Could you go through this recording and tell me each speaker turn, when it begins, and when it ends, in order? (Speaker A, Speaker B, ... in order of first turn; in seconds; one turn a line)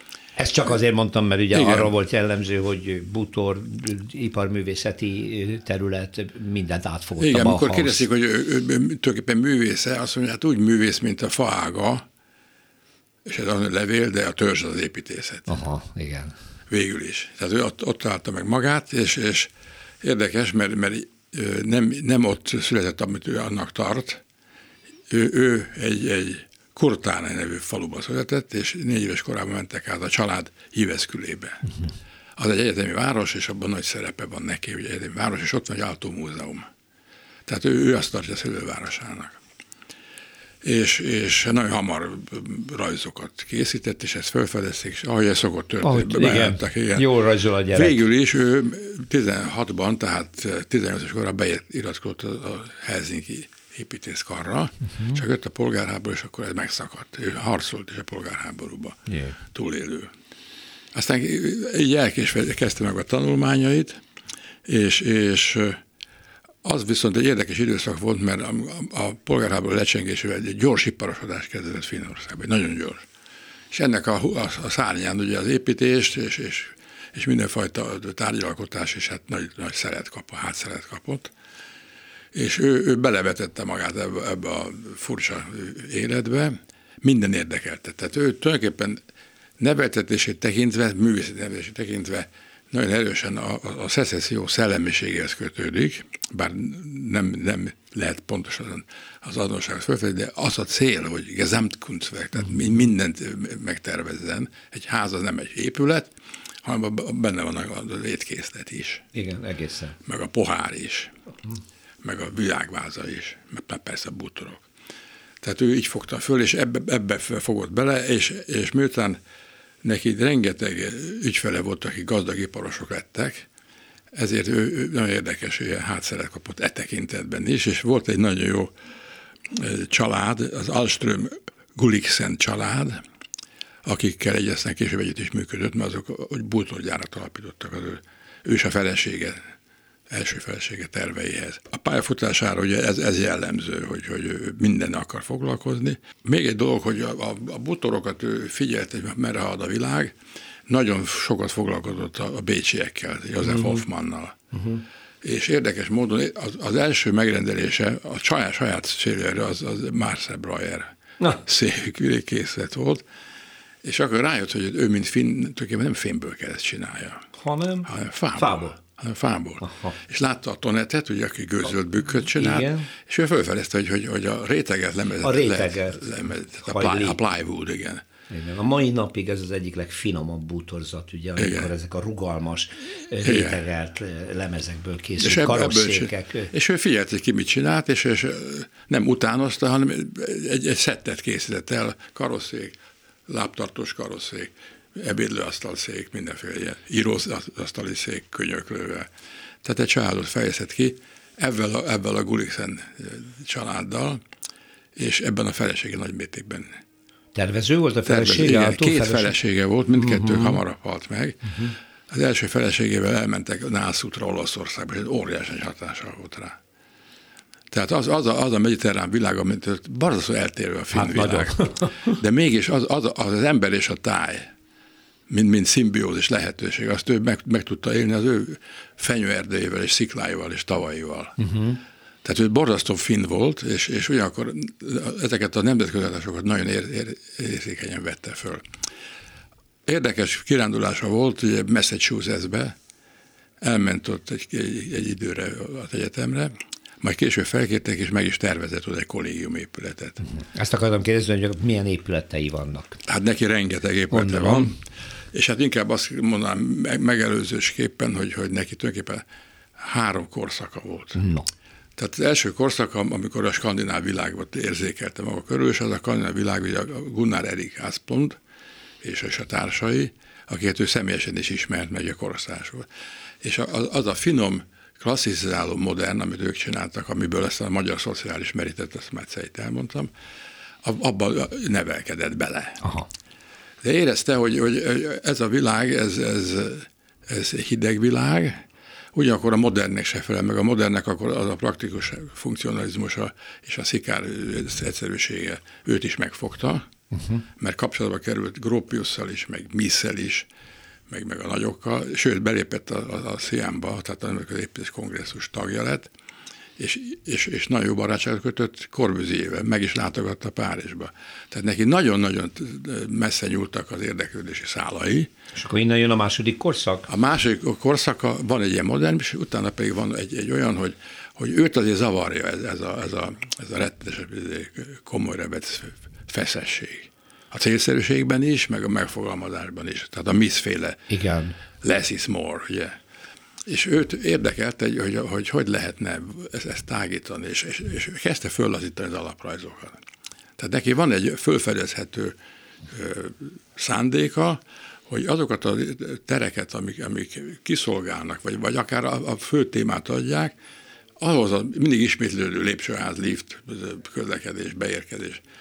Speaker A: 0.3-8.1
Speaker B: 1.5-1.9
Speaker B: 7.2-12.0
Speaker B: 13.2-15.6
Speaker A: 15.5-16.3
Speaker B: 16.7-19.5
Speaker B: 20.0-24.2
Speaker B: 25.1-31.7
Speaker B: 32.4-36.7
Speaker B: 37.5-39.4
Speaker B: 40.6-47.1
Speaker A: 45.8-48.0
Speaker B: 47.7-60.1
Speaker A: 59.1-59.4
Speaker B: 60.9-64.0
Speaker B: 64.7-65.8
Speaker B: 66.6-73.0
Speaker B: 73.7-81.3
Speaker B: 82.3-89.0
Speaker B: 89.6-106.1
Speaker B: 106.6-109.0
Speaker A: 109.1-110.0
Speaker B: 110.0-111.1
Speaker B: 112.0-114.7
Speaker B: 115.4-119.2
Speaker B: 119.8-123.5
Speaker B: 124.1-128.7
Speaker B: 129.5-133.0
Speaker B: 133.8-139.4
Speaker B: 140.1-150.1
Speaker B: 150.7-154.4
Speaker A: 153.4-153.8
Speaker A: 154.5-154.8
Speaker B: 155.2-163.0
Speaker B: 163.8-167.3
Speaker A: 167.3-168.8
Speaker B: 167.8-178.0
Speaker A: 169.6-170.0
Speaker A: 172.2-172.9
Speaker A: 175.2-176.0
Speaker A: 176.6-177.2
Speaker A: 178.3-186.5
Speaker B: 181.4-181.7
Speaker B: 183.2-183.6
Speaker B: 185.2-192.8
Speaker B: 193.3-199.1
Speaker B: 199.6-204.2
Speaker B: 205.0-206.8
Speaker A: 207.3-209.3
Speaker B: 208.1-216.6
Speaker A: 209.9-210.6
Speaker B: 217.7-224.5
Speaker A: 220.9-221.9
Speaker B: 225.3-231.4
Speaker A: 231.4-231.8
Speaker B: 232.2-238.7
Speaker B: 239.8-242.7
Speaker B: 243.6-250.3
Speaker A: 250.3-253.0
Speaker B: 253.1-254.8
Speaker A: 254.1-254.7
Speaker B: 255.3-259.2
Speaker B: 259.8-261.2
Speaker A: 261.1-261.5
Speaker B: 262.0-268.4
Speaker B: 269.0-272.9
Speaker B: 273.4-280.1
Speaker B: 280.8-282.8
Speaker B: 283.8-288.6
Speaker B: 289.1-296.9
Speaker A: 297.1-297.4
Speaker B: 297.6-300.5
Speaker B: 301.1-306.1
Speaker B: 306.8-315.3
Speaker A: 315.5-317.1
Speaker B: 317.1-331.1
Speaker A: 331.1-331.6
Speaker B: 331.8-333.0
Speaker B: 333.7-340.0
Speaker B: 340.6-342.4
Speaker B: 342.9-350.6
Speaker B: 351.2-355.4